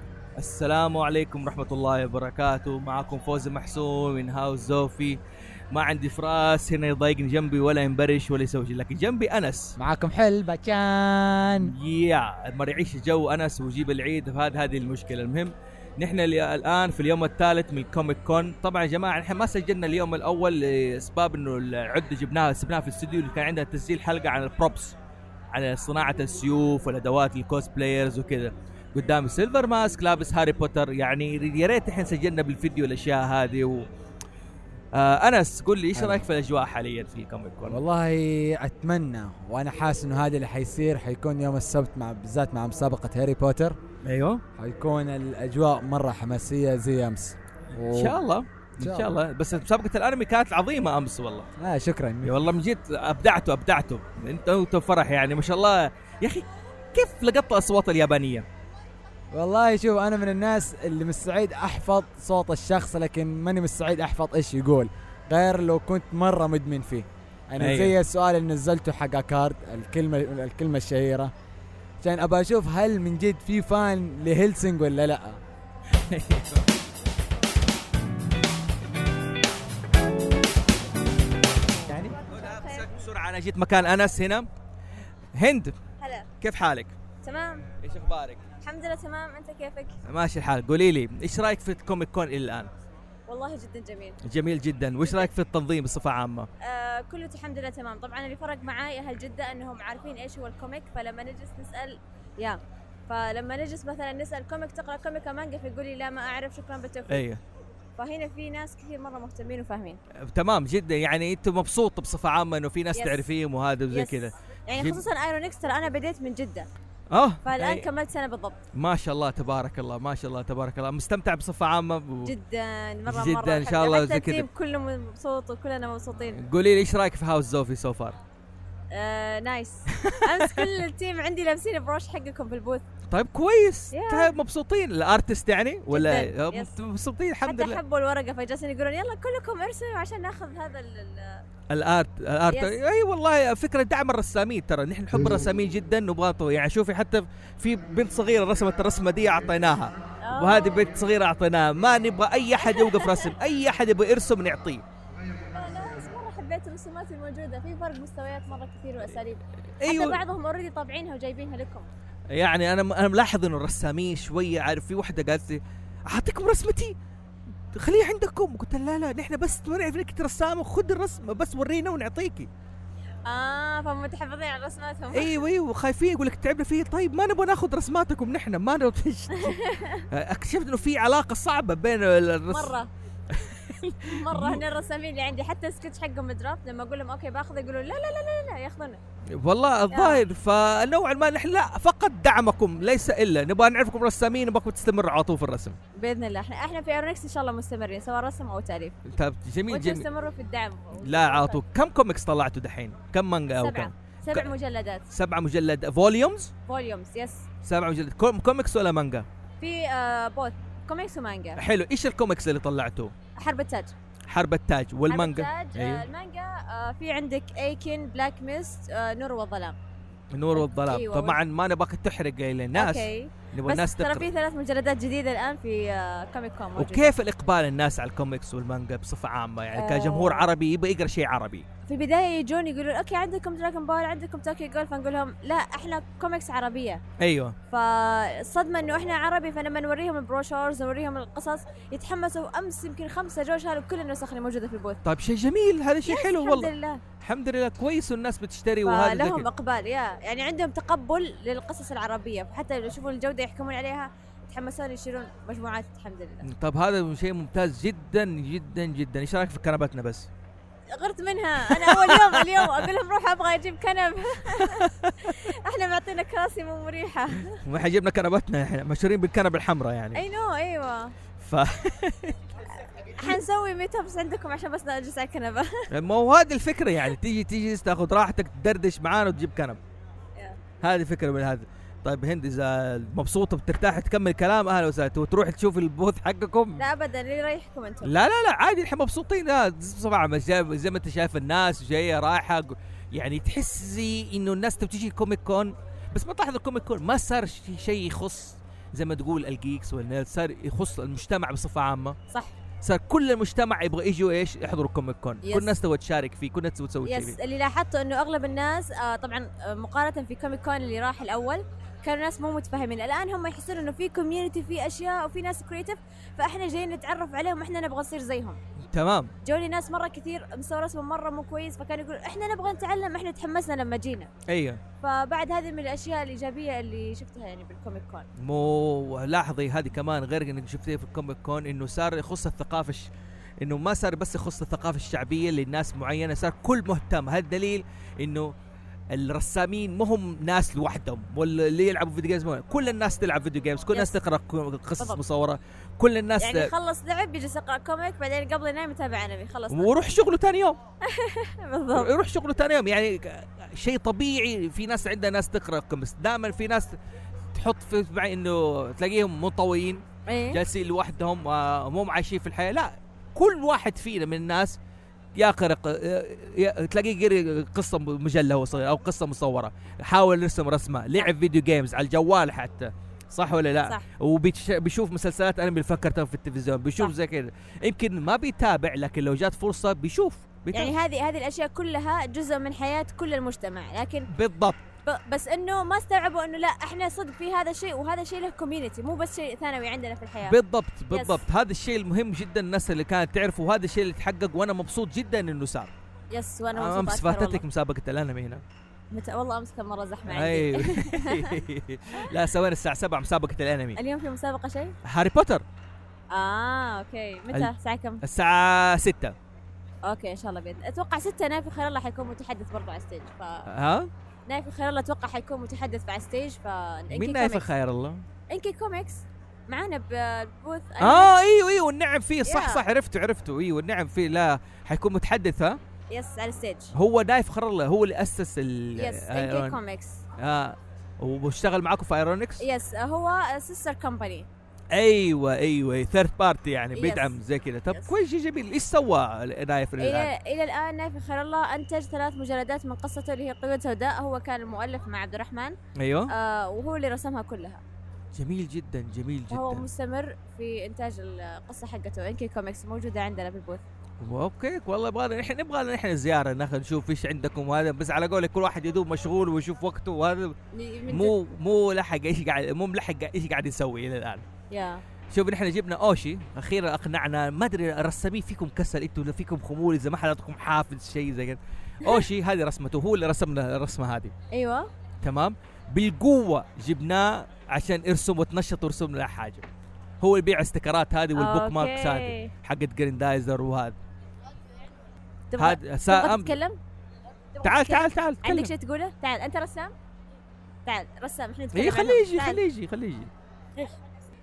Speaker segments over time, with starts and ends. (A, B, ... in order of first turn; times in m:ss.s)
0:00.4-0:05.2 A
0:05.7-0:09.8 A
0:09.8-0:11.8 B
0:11.6-0:25.0 A
0:25.5-0:33.9 A
0:34.9-0:37.8 A
0:36.0-0:36.3 B
0:37.6-0:43.8 B
0:44.0-0:44.4 A
0:44.6-0:48.2 B
0:47.9-0:51.5 A
0:48.8-0:49.1 B
0:51.6-0:52.4 B
0:52.2-0:58.4 A
0:59.3-1:11.3 B
1:07.6-1:08.0 A
1:12.0-1:15.4 B
1:16.1-1:16.6 A
1:21.9-1:24.5 A
1:21.9-1:22.9 C
1:25.4-1:25.8 A
1:26.0-1:26.3 C
1:26.4-1:27.0 A
1:27.2-1:27.7 C
1:27.8-1:28.4 A
1:28.6-1:30.0 C
1:30.1-1:32.7 A
1:33.3-1:34.2 C
1:34.3-1:36.5 A
1:35.0-1:35.3 C
1:36.6-1:47.2 C
1:47.1-1:47.4 A
1:48.0-1:50.0 C
1:50.3-1:55.0 A
1:53.0-1:53.3 C
1:53.9-1:56.7 C
1:57.1-1:57.9 A
1:57.4-1:58.6 C
1:58.8-2:02.3 A
2:02.2-2:06.4 C
2:03.1-2:04.5 A
2:06.4-2:08.2 A
2:08.9-2:12.8 C
2:10.0-2:10.6 A
2:13.1-2:17.8 A
2:13.9-2:14.4 C
2:15.9-2:16.7 C
2:17.4-2:21.4 C
2:21.7-2:34.8 A
2:22.5-2:22.8 C
2:30.2-2:30.9 C
2:32.6-2:33.2 C
2:35.5-2:41.9 C
2:39.8-2:40.2 A
2:42.3-2:47.0 A
2:47.7-2:52.5 A
2:53.3-2:55.4 C
2:55.1-2:59.6 A
2:59.4-3:00.0 C
3:00.1-3:02.8 A
3:02.5-3:02.9 C
3:03.3-3:04.6 A
3:04.1-3:09.0 C
3:09.4-3:15.8 A
3:09.9-3:10.2 C
3:16.0-3:19.0 C
3:19.1-3:20.0 A
3:19.7-3:21.6 C
3:21.0-3:24.5 A
3:23.6-3:25.0 C
3:25.1-3:26.5 A
3:26.7-3:27.4 C
3:27.6-3:29.3 A
3:29.6-3:31.6 C
3:31.6-3:33.1 A
3:33.4-3:33.9 C
3:34.3-3:36.0 A
3:35.1-3:39.8 C
3:40.3-3:44.3 A
3:40.6-3:41.4 C
3:42.8-3:47.1 C
3:46.8-3:51.6 A
3:49.7-3:50.5 C
3:51.9-3:57.0 C
3:57.2-3:57.6 A
3:57.7-4:05.0 C
4:05.0-4:09.5 A
4:06.1-4:07.0 C
4:08.9-4:16.5 C
4:16.4-4:20.3 A
4:20.9-4:27.6 C
4:21.7-4:22.9 A
4:24.5-4:25.1 A
4:27.6-4:30.2 A
4:30.2-4:31.1 C
4:31.4-4:32.4 A
4:33.0-4:35.8 C
4:35.9-4:39.8 A
4:40.8-4:46.8 A
4:46.8-4:48.2 C
4:48.0-5:02.2 A
5:02.8-5:07.4 A
5:05.4-5:05.7 C
5:07.1-5:18.6 C
5:18.8-5:19.3 A
5:19.4-5:24.3 C
5:24.5-5:24.8 A
5:25.0-5:28.3 C
5:28.4-5:33.1 A
5:33.6-5:38.5 A
5:39.1-5:46.7 A
5:43.9-5:44.2 C
5:46.4-5:49.9 C
5:49.7-5:50.8 A
5:51.1-5:52.1 C
5:51.9-5:56.9 A
5:57.5-6:04.8 A
6:00.3-6:00.6 C
6:05.4-6:21.0 A
6:20.7-6:24.3 C
6:24.3-6:24.8 A
6:25.0-6:30.6 C
6:30.4-6:35.9 A
6:31.1-6:31.4 C
6:36.3-6:37.6 C
6:36.8-6:38.6 A
6:39.1-6:41.6 C
6:40.3-6:44.0 A
6:44.0-6:45.0 C
6:45.1-6:45.6 A
6:46.3-6:48.2 C
6:47.5-6:49.4 A
6:50.1-6:53.7 C
6:53.7-6:54.1 A
6:54.5-6:57.7 C
6:57.1-6:58.2 A
6:58.5-7:01.3 C
7:01.0-7:05.8 A
7:02.5-7:02.8 C
7:06.1-7:06.9 C
7:06.9-7:09.8 A
7:09.0-7:10.2 C
7:10.4-7:12.6 A
7:12.6-7:14.5 C
7:14.9-7:20.3 A
7:17.0-7:17.4 C
7:20.0-7:25.8 C
7:26.0-7:26.3 A
7:26.3-7:27.8 C
7:28.4-7:29.8 A
7:29.5-7:33.8 C
7:34.2-7:40.6 A
7:40.7-7:41.4 C
7:41.1-7:44.4 A
7:44.7-7:45.0 C
7:45.3-7:54.3 A
7:54.5-7:54.9 C
7:55.2-7:59.7 A
8:00.2-8:04.0 A
8:01.4-8:02.5 C
8:05.5-8:06.8 C
8:05.6-8:06.6 A
8:07.6-8:09.9 C
8:07.6-8:08.7 A
8:10.9-8:12.6 C
8:11.7-8:13.3 A